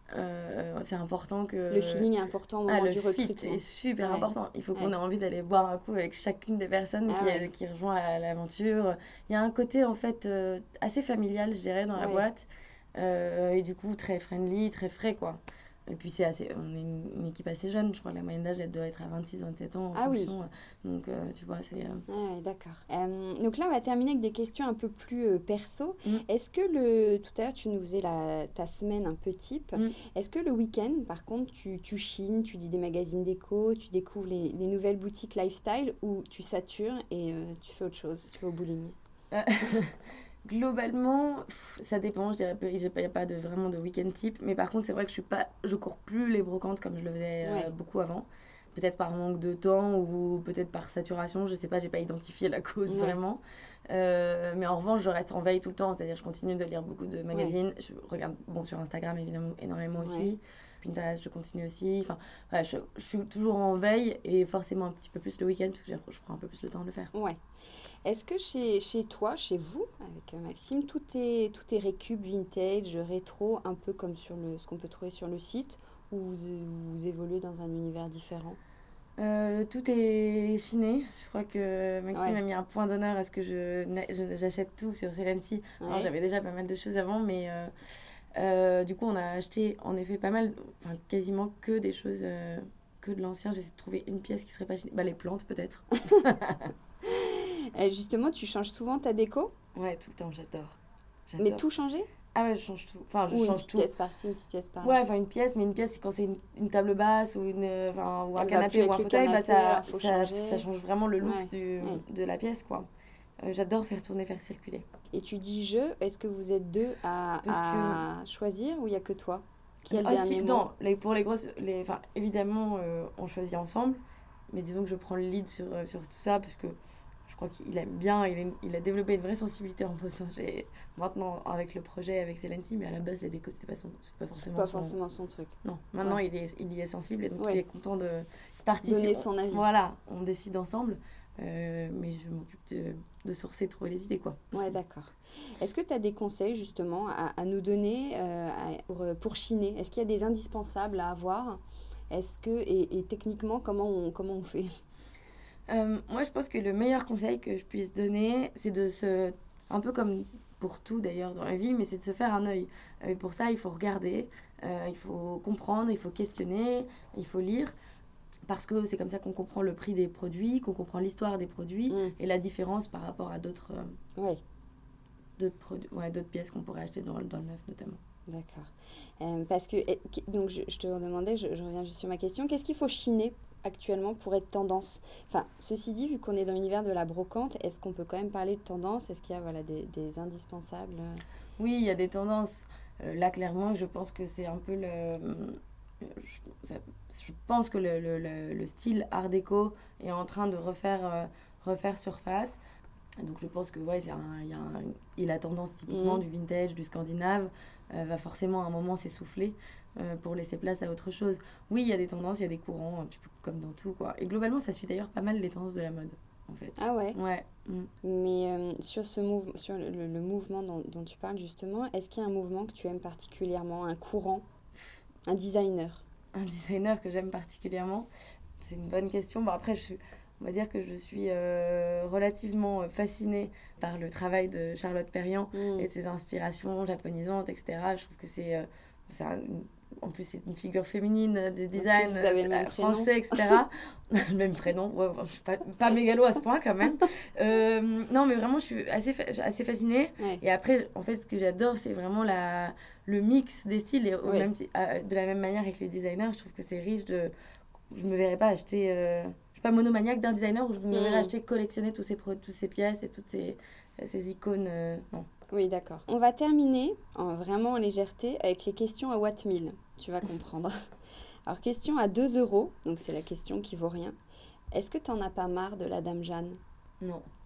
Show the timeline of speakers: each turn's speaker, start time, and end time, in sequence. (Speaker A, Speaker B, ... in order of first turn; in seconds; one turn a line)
Speaker A: 0.1-2.1
Speaker B: 1.7-4.9
Speaker A: 2.7-22.0
Speaker B: 7.1-7.5
Speaker B: 12.0-12.2
Speaker B: 19.9-20.4
Speaker B: 22.1-39.0
Speaker A: 39.3-67.1
Speaker B: 47.4-47.7
Speaker B: 52.9-53.2
Speaker B: 60.0-60.3
Speaker B: 67.1-67.4
Speaker B: 68.0-78.6
Speaker A: 79.2-87.7
Speaker B: 82.1-82.4
Speaker B: 85.8-86.1
Speaker A: 88.4-96.7
Speaker B: 97.0-99.5
Speaker A: 99.8-101.6
Speaker B: 101.4-102.1
Speaker A: 102.3-103.9
Speaker B: 103.3-105.0
Speaker A: 104.8-112.9
Speaker B: 108.3-110.7
Speaker B: 111.2-112.0
Speaker A: 113.4-114.9
Speaker B: 115.1-120.7
Speaker A: 117.4-118.0
Speaker A: 119.9-134.9
Speaker B: 134.5-136.2
Speaker A: 135.6-144.7
Speaker B: 138.8-139.6
Speaker B: 144.5-154.8
Speaker A: 155.7-167.8
Speaker A: 168.5-174.0
Speaker B: 171.9-172.2
Speaker A: 175.4-178.0
Speaker B: 178.3-191.2
Speaker A: 191.6-202.6
Speaker A: 203.2-217.9
Speaker B: 205.9-206.2
Speaker B: 216.8-217.2
Speaker B: 218.0-224.4
Speaker B: 225.3-226.0
Speaker A: 226.3-228.1
Speaker A: 228.6-257.3
Speaker B: 235.5-235.9
Speaker B: 241.8-243.6
Speaker A: 257.9-265.3
Speaker B: 260.9-261.3
Speaker B: 265.5-270.8
Speaker B: 271.5-274.2
Speaker B: 274.7-276.6
Speaker A: 277.0-277.3